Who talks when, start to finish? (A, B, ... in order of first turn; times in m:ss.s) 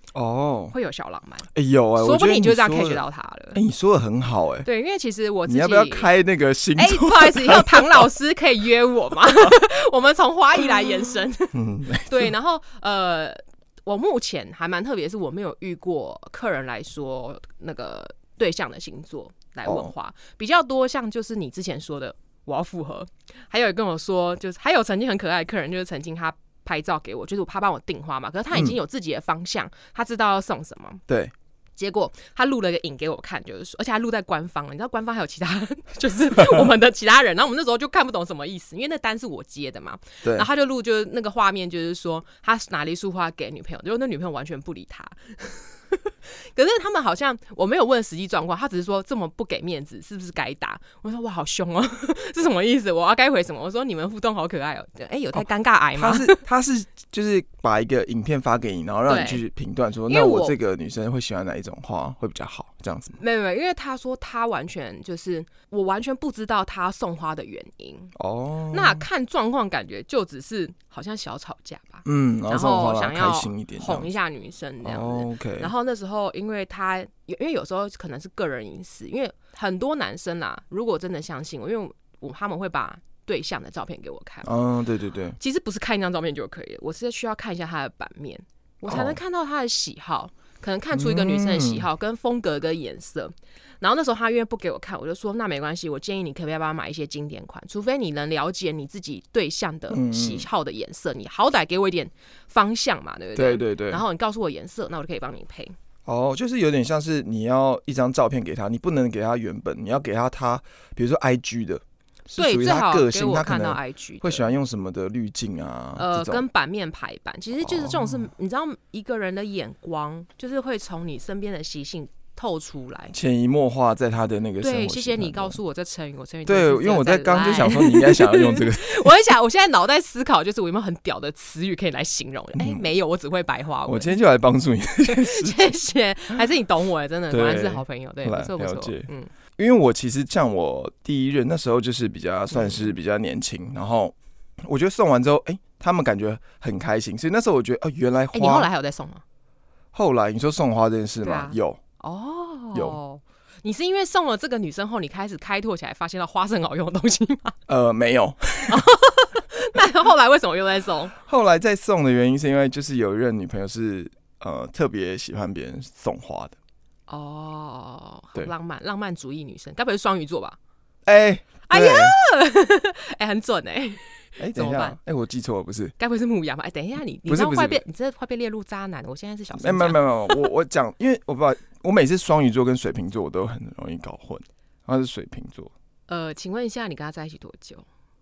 0:00.1-0:00.7 A
0:00.7-0:03.6 B
0:01.5-0:04.7 A
0:04.6-0:06.1 B
0:05.4-0:08.1 A
0:06.8-0:31.0 B
0:11.5-0:12.3 A
0:19.6-0:19.9 A
0:31.1-0:31.3 A
0:31.8-0:56.4 B
0:56.0-1:03.2 A
0:59.1-0:59.4 B
1:00.1-1:00.6 B
1:03.2-1:08.1 B
1:08.2-1:09.0 A
1:08.7-1:24.5 B
1:12.0-1:14.1 A
1:14.8-1:15.7 A
1:24.4-1:25.4 A
1:25.4-1:45.7 B
1:28.9-1:29.2 A
1:30.9-1:31.8 A
1:39.9-1:40.5 A
1:43.3-1:44.0 A
1:46.0-1:56.4 A
1:52.3-1:54.5 B
1:56.0-2:03.1 B
1:57.6-1:58.3 A
2:03.1-2:05.6 A
2:04.6-2:14.2 B
2:06.4-2:09.1 A
2:12.6-2:12.8 A
2:13.8-2:15.8 A
2:15.0-2:19.3 B
2:17.3-2:28.7 A
2:22.5-2:22.9 B
2:28.3-2:29.2 B
2:29.9-2:31.8 A
2:31.2-2:37.6 B
2:37.7-2:38.9 A
2:38.7-2:41.1 B
2:41.1-2:46.6 A
2:47.1-2:50.6 B
2:51.0-2:52.2 A
2:51.7-2:55.0 B
2:54.4-2:55.9 A
2:56.0-3:00.4 B
2:57.3-2:57.8 A
2:59.5-3:05.7 A
3:06.1-3:07.8 B